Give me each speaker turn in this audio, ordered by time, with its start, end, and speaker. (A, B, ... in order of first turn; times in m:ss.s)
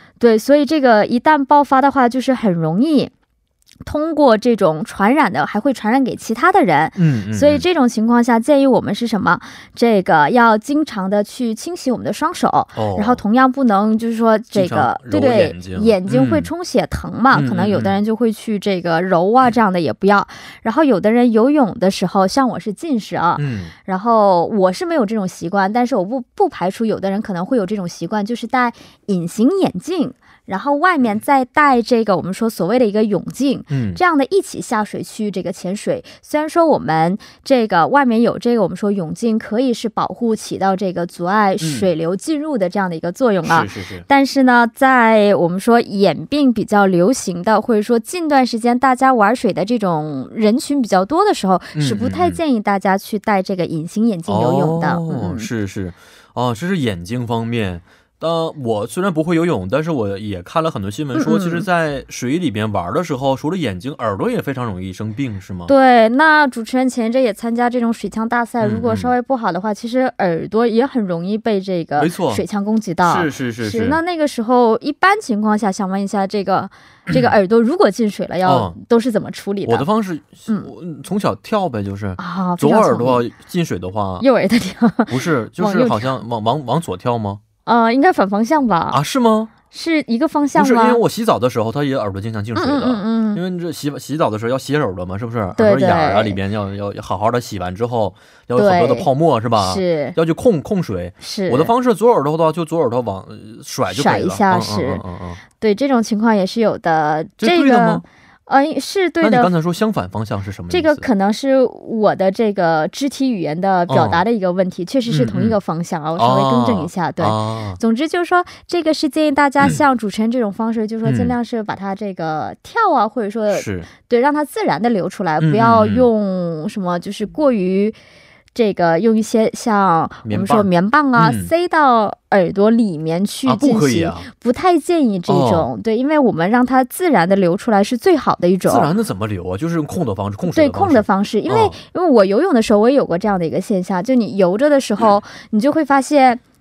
0:00.2-0:03.1 A
0:03.8-0:55.5 A
0:07.0-0:07.6 B
0:12.8-0:13.2 B
0:14.5-0:16.5 B
0:17.3-0:18.0 B
0:23.4-0:23.7 B
0:33.7-0:34.0 B
0:41.6-0:41.9 B
0:43.4-0:44.1 B
0:51.7-0:52.4 B
0:54.3-1:05.7 B
1:01.2-1:01.7 A
1:05.7-1:19.8 A
1:08.6-1:09.1 B
1:12.0-1:12.4 B
1:13.0-1:14.0 B
1:17.1-1:17.3 B
1:18.4-1:18.8 B
1:19.7-1:24.2 B
1:22.2-1:23.2 A
1:24.2-1:26.1 A
1:25.1-1:27.4 B
1:27.7-1:29.0 A
1:28.9-1:29.5 B
1:29.7-1:31.0 A
1:30.6-1:45.4 B
1:32.6-1:33.4 A
1:35.6-1:36.4 A
1:38.6-1:40.2 A
1:41.2-1:41.7 A
1:43.9-1:45.0 A
1:45.6-1:49.5 A
1:47.4-1:48.0 B
1:49.2-1:51.1 B
1:50.7-2:08.0 A
1:53.9-1:54.2 B
1:55.1-1:55.6 B
1:56.2-1:57.8 B
2:01.0-2:01.3 B
2:03.5-2:03.9 B
2:05.4-2:06.1 B
2:08.5-2:18.9 A
2:10.2-2:11.5 B
2:13.4-2:14.3 B
2:15.3-2:15.7 B
2:18.7-2:21.8 B
2:20.5-2:26.4 A